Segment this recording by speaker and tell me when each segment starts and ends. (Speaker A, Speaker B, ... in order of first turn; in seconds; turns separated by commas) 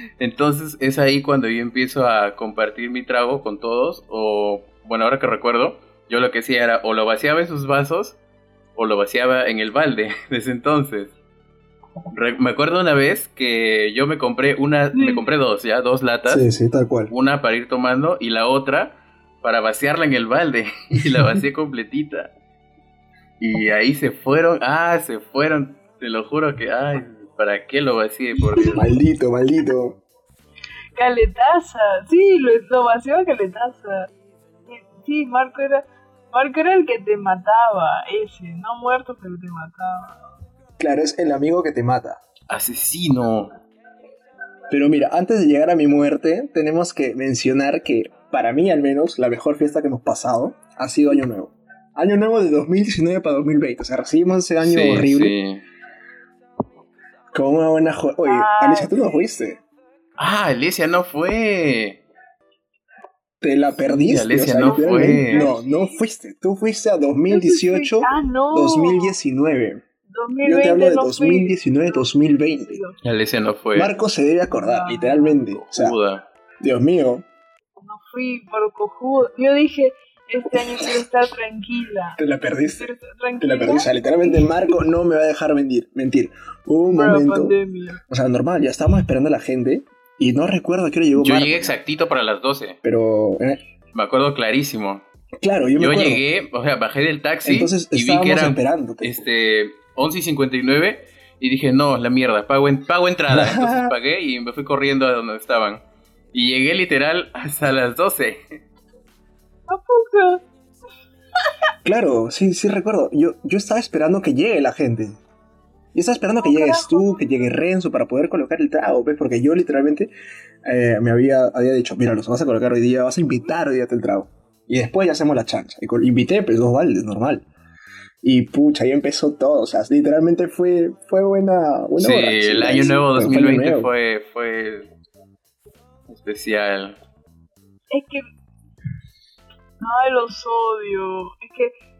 Speaker A: 0.2-8.2, Speaker A: 8.8-11.1, Speaker A: 12.1-16.4, Speaker B: 14.9-15.2, Speaker C: 16.2-17.1, Speaker A: 17.1-22.3, Speaker A: 23.4-28.9, Speaker C: 28.7-30.0, Speaker B: 30.9-34.1, Speaker B: 34.6-40.2, Speaker C: 40.8-42.2, Speaker A: 42.5-43.6, Speaker C: 44.7-55.4, Speaker A: 54.6-55.6, Speaker C: 57.3-59.6, Speaker B: 58.2-59.2, Speaker A: 60.2-62.0, Speaker C: 63.4-69.8, Speaker A: 64.0-65.5, Speaker B: 64.6-66.0, Speaker B: 67.3-69.2, Speaker B: 70.1-73.0, Speaker C: 70.4-72.8, Speaker A: 73.0-73.9, Speaker C: 73.7-76.0, Speaker B: 74.5-75.4, Speaker A: 75.5-76.2, Speaker C: 76.6-77.2, Speaker B: 77.8-82.2, Speaker C: 82.2-87.6, Speaker B: 82.8-84.5, Speaker B: 86.9-88.0, Speaker C: 88.1-91.7, Speaker A: 91.2-92.8, Speaker C: 92.8-93.6, Speaker A: 93.9-95.0, Speaker C: 95.4-96.2, Speaker A: 95.8-105.8, Speaker C: 97.4-99.2, Speaker C: 103.3-104.0, Speaker A: 106.3-108.4, Speaker B: 109.7-110.4, Speaker C: 111.8-115.2, Speaker C: 115.9-120.1, Speaker B: 116.4-117.5, Speaker C: 120.6-127.5, Speaker C: 128.2-133.9, Speaker A: 132.0-134.9, Speaker A: 136.1-137.0, Speaker B: 137.9-138.2, Speaker B: 139.8-141.7